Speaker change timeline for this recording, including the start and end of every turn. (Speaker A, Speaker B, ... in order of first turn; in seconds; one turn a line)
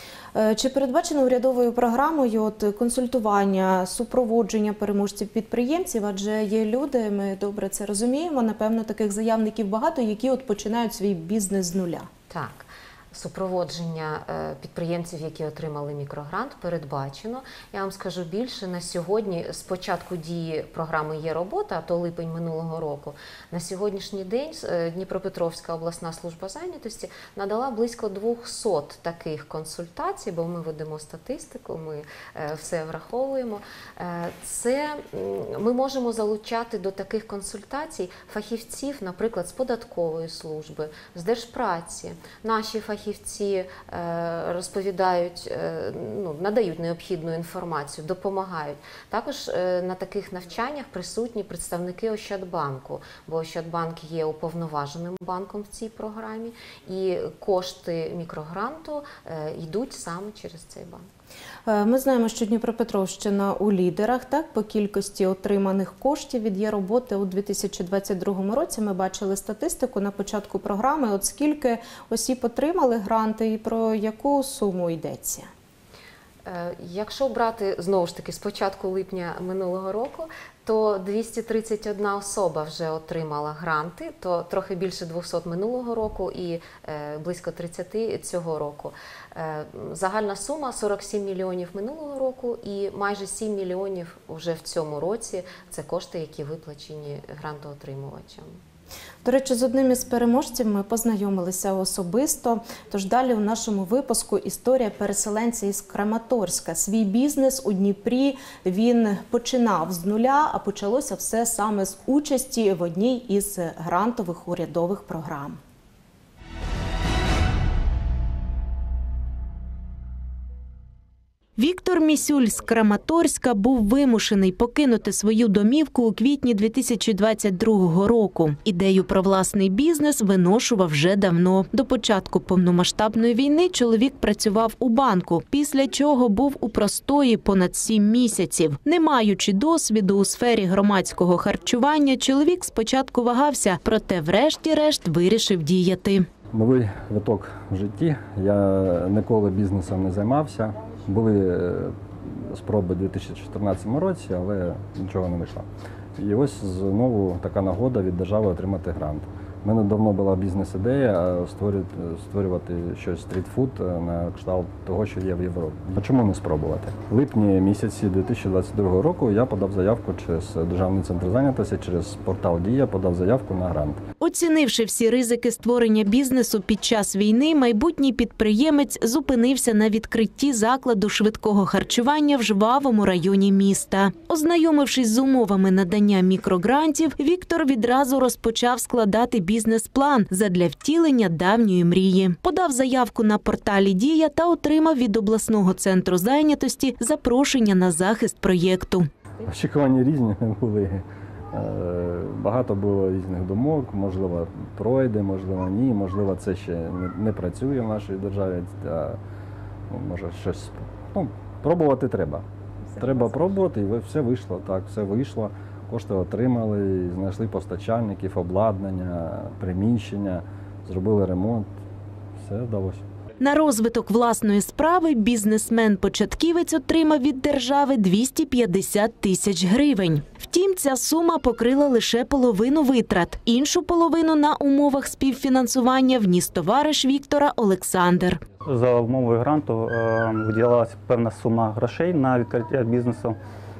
Speaker A: 0.3-12.1
Speaker B: 12.3-61.0
Speaker A: 61.6-75.5
Speaker B: 76.5-98.6
Speaker A: 99.2-115.6
Speaker C: 121.6-146.3
Speaker D: 146.5-174.0
Speaker C: 174.2-199.1
Speaker D: 199.4-209.2
Speaker D: 209.9-221.7
Speaker D: 222.4-223.0
Speaker C: 223.4-238.4
Speaker E: 238.6-243.4